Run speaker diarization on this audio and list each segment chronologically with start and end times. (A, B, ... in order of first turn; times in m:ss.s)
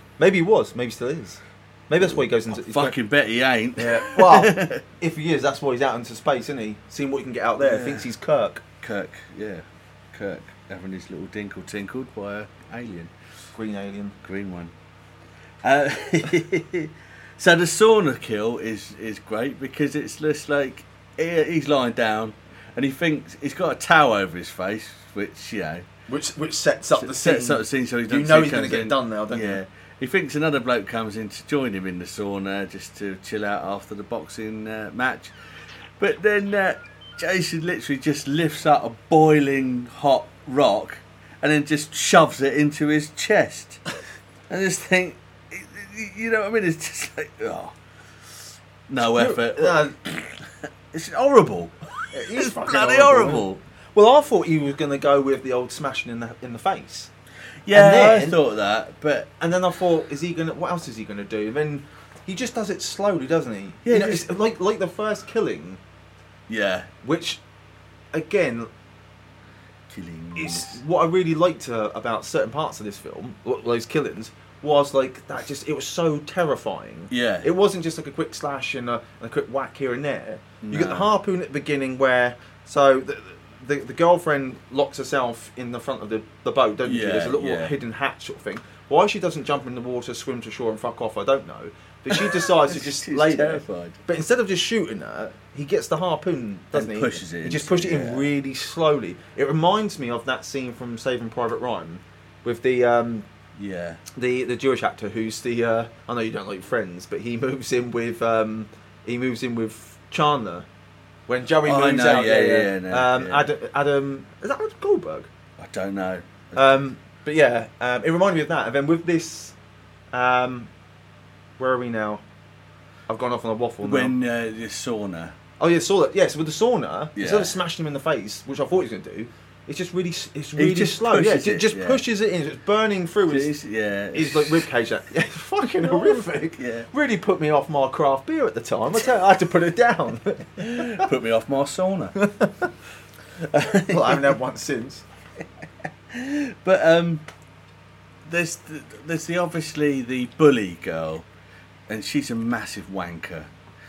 0:00.2-0:03.0 A
0:02.0-0:04.8 B
0:03.8-0:08.6 A
0:07.6-0:08.1 B
0:08.8-0:13.1 B
0:13.6-0:14.2 A
0:14.2-0:14.7 B
0:15.6-0:25.9 B
0:26.1-0:29.6 A
0:27.0-0:35.4 B
0:36.0-0:43.8 B
0:44.5-0:47.8 B
0:48.9-0:53.6 B
0:49.0-0:50.0 A
0:52.1-0:57.1 A
0:57.6-0:59.3 B
0:57.7-0:58.4 A
0:59.4-1:05.8 A
1:03.8-1:04.3 B
1:06.5-1:06.9 B
1:07.0-1:07.4 A
1:08.1-1:08.7 A
1:09.9-1:10.8 B
1:10.4-1:43.3 A
1:17.1-1:17.5 B
1:20.6-1:21.1 B
1:26.8-1:27.7 B
1:32.1-1:34.0 B
1:36.7-1:38.3 B
1:43.6-1:44.0 B
1:44.2-1:50.7 A
1:51.3-1:55.3 A
1:51.6-1:53.5 B
1:55.6-1:56.8 B
1:56.6-1:59.6 A
2:00.1-2:00.7 A
2:01.6-2:02.2 A
2:03.1-2:04.2 A
2:03.8-2:05.4 B
2:05.6-2:13.5 A
2:07.2-2:07.6 B
2:10.6-2:12.0 B
2:13.3-2:14.7 B
2:14.1-2:21.1 A
2:15.8-2:16.9 B
2:20.6-2:22.2 B
2:22.2-2:22.7 A
2:23.4-2:24.3 B
2:23.9-2:25.0 A
2:26.1-2:27.3 B
2:28.2-2:31.3 B
2:31.9-2:33.5 B